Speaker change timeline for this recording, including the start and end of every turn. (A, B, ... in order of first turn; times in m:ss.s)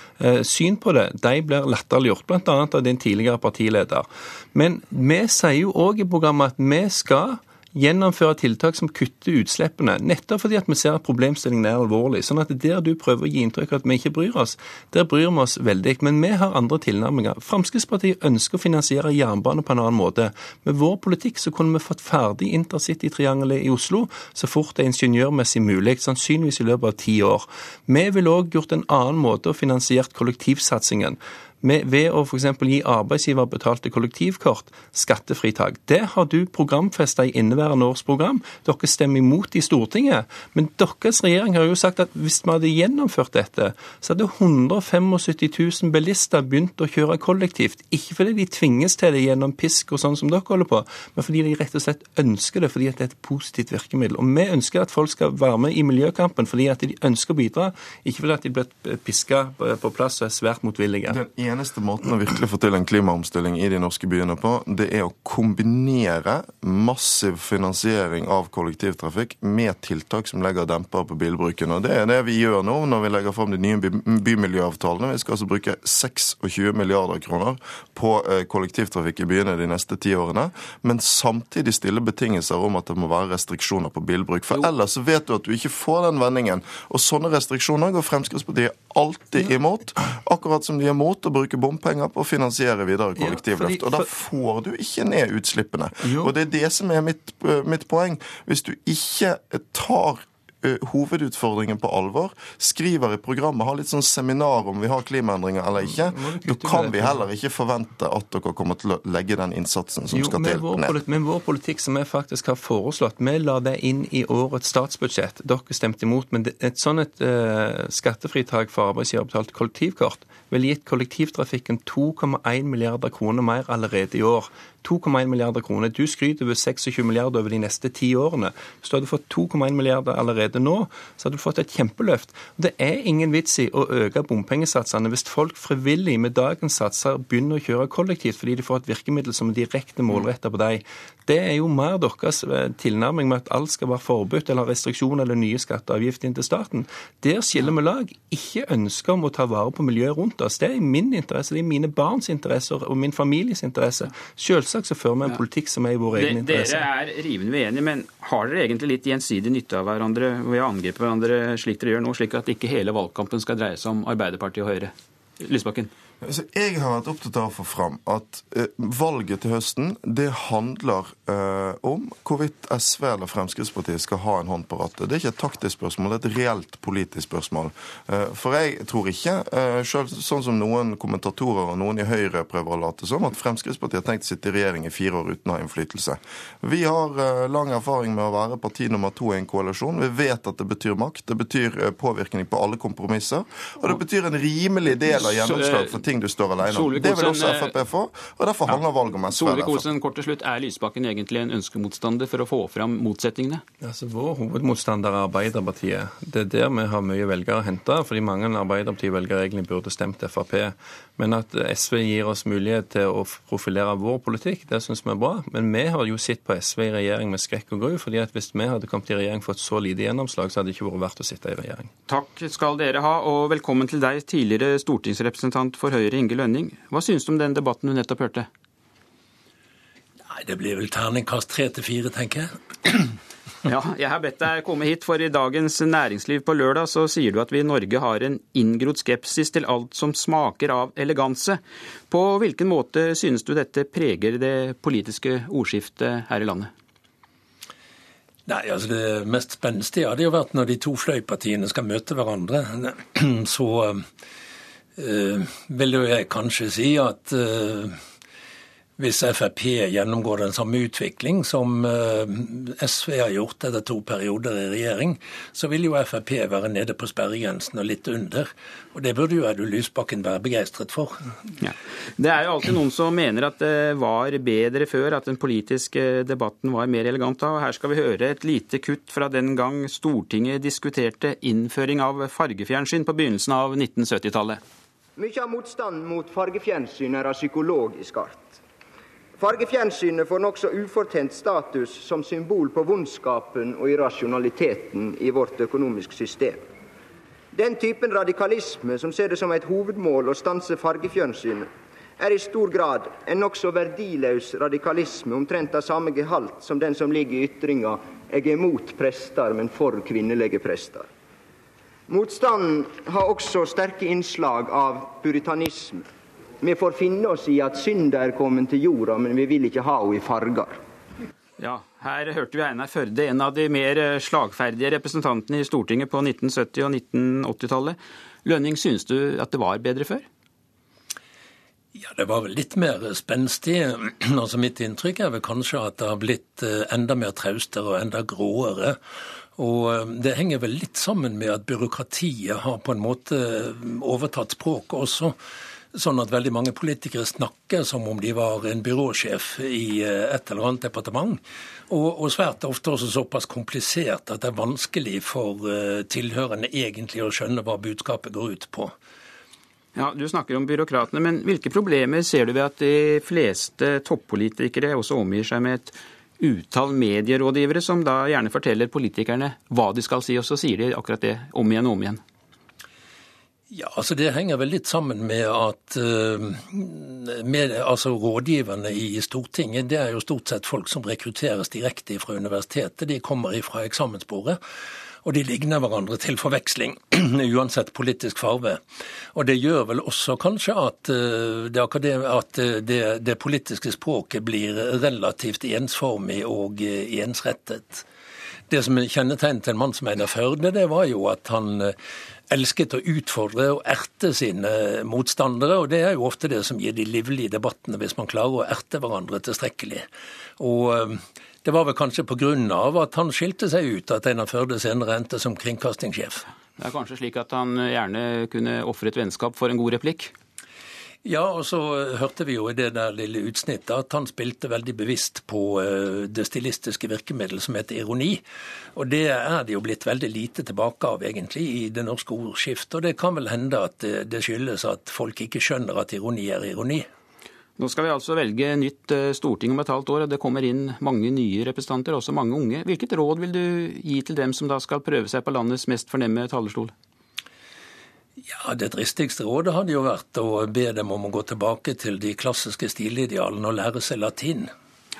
0:00.2-1:01.2 A
1:01.1-1:51.0 B
1:33.2-1:34.1 A
1:36.0-1:36.3 A
1:45.8-1:47.2 A
1:50.1-2:36.8 A
2:36.1-2:45.9 C
2:46.2-3:19.9 B
3:15.0-3:16.1 C
3:16.6-3:17.8 C
3:18.7-3:23.6 C
3:23.8-3:41.9 A
3:42.1-3:48.5 C
3:50.3-3:53.0 D
3:53.7-4:06.7 C
4:08.5-4:14.1 D
4:15.0-4:17.9 D
4:19.0-4:31.3 D
4:31.6-4:44.6 C
4:45.2-4:48.6 E
4:49.4-4:56.7 E
4:57.5-5:11.1 E
5:12.1-5:16.1 E
5:16.6-5:20.8 E
5:21.6-5:30.2 C
5:31.9-5:39.0 D
5:39.6-5:45.4 D
5:45.9-5:58.9 D
6:00.0-6:12.2 C
6:13.7-6:24.6 D
6:25.2-6:28.8 D
6:29.3-6:38.0 D
6:38.7-6:41.9 D
6:42.5-6:50.1 D
6:50.6-6:56.4 D
6:56.8-7:00.3 C
7:01.2-7:08.4 D
7:08.9-7:17.1 D
7:17.8-7:26.9 C
7:28.5-7:34.7 D